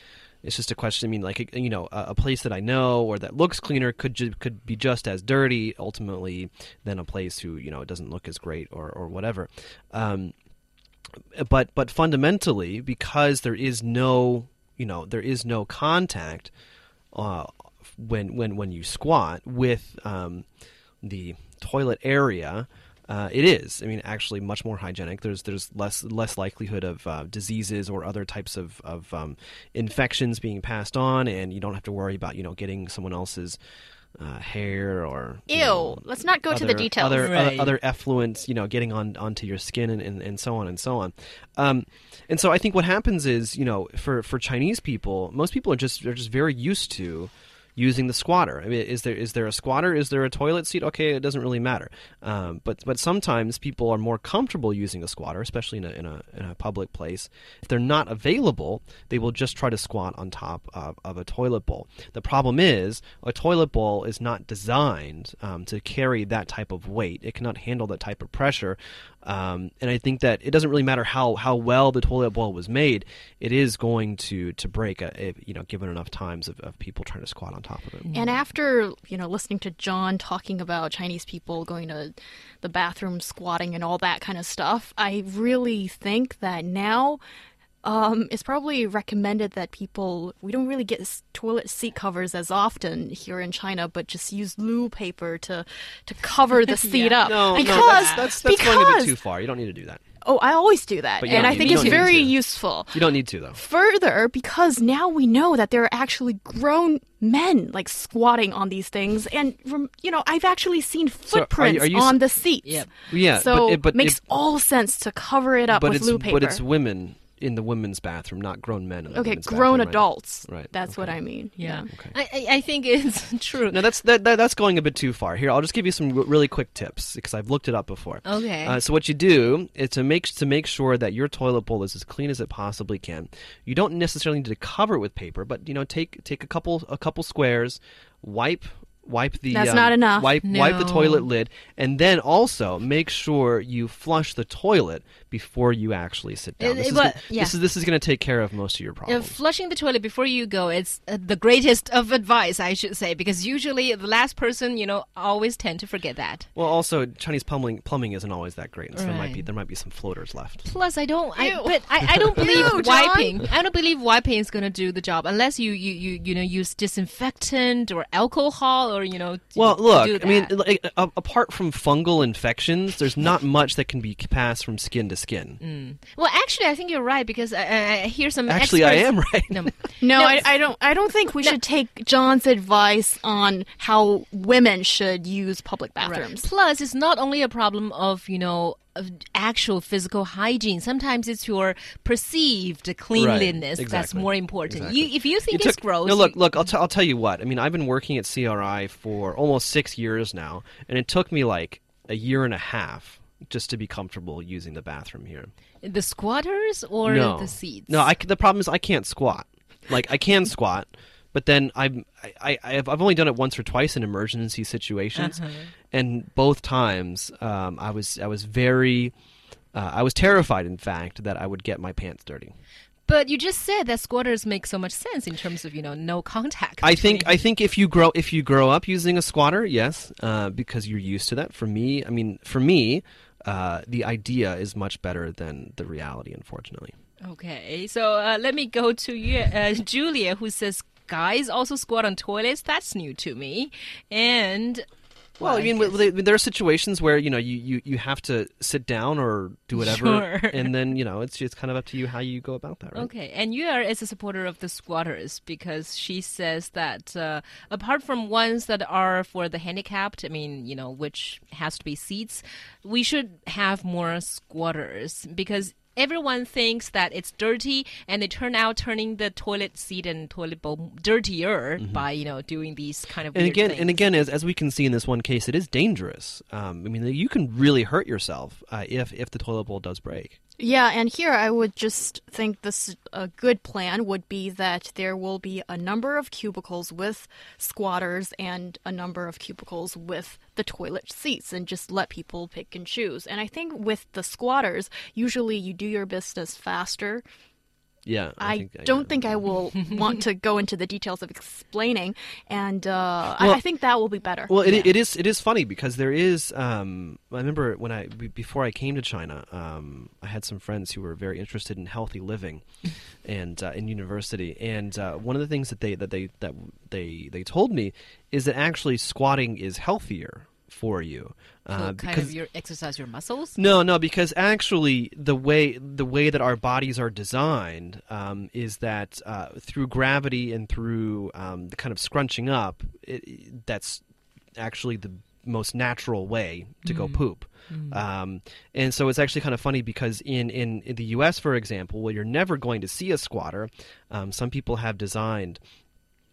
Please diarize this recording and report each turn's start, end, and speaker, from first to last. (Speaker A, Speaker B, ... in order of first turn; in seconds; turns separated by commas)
Speaker A: 0.4-10.3, Speaker A: 11.3-16.5, Speaker A: 17.1-20.4, Speaker A: 21.0-33.6, Speaker A: 34.2-78.1, Speaker B: 35.5-37.4, Speaker C: 37.2-37.8, Speaker C: 78.0-78.3, Speaker B: 78.2-87.2, Speaker B: 87.8-99.2, Speaker C: 96.8-98.2, Speaker A: 97.2-100.0, Speaker B: 100.2-116.6, Speaker A: 101.2-102.4, Speaker C: 101.2-102.2, Speaker A: 102.9-103.6, Speaker A: 111.3-112.2, Speaker C: 112.6-112.9, Speaker A: 113.1-114.2, Speaker A: 115.7-121.2, Speaker B: 119.1-121.9, Speaker C: 121.6-123.8, Speaker A: 123.7-149.4, Speaker C: 128.2-128.8, Speaker B: 139.5-140.4, Speaker C: 140.4-141.3, Speaker C: 146.6-147.6, Speaker C: 149.1-156.5, Speaker A: 156.6-160.7, Speaker C: 158.9-159.5, Speaker C: 160.6-170.5, Speaker B: 161.4-163.4, Speaker A: 162.4-162.7, Speaker A: 169.6-175.6, Speaker C: 175.6-180.5, Speaker A: 178.5-179.7, Speaker B: 180.0-186.5, Speaker C: 186.0-196.4, Speaker A: 193.1-205.5, Speaker C: 205.8-208.1, Speaker A: 207.1-219.1, Speaker C: 215.2-215.7, Speaker A: 219.7-222.5, Speaker C: 223.1-227.3, Speaker A: 226.8-236.9, Speaker C: 237.2-244.8, Speaker C: 245.4-246.0, Speaker A: 245.4-253.1, Speaker C: 249.8-250.7, Speaker C: 252.9-274.1, Speaker A: 271.8-272.0, Speaker A: 273.3-280.4, Speaker B: 280.6-297.2, Speaker A: 298.1-299.4, Speaker B: 298.4-304.6, Speaker A: 304.5-312.6, Speaker C: 304.6-304.9, Speaker A: 313.2-322.3, Speaker C: 321.7-323.6, Speaker A: 323.6-334.0, Speaker A: 334.6-345.6, Speaker C: 336.8-338.0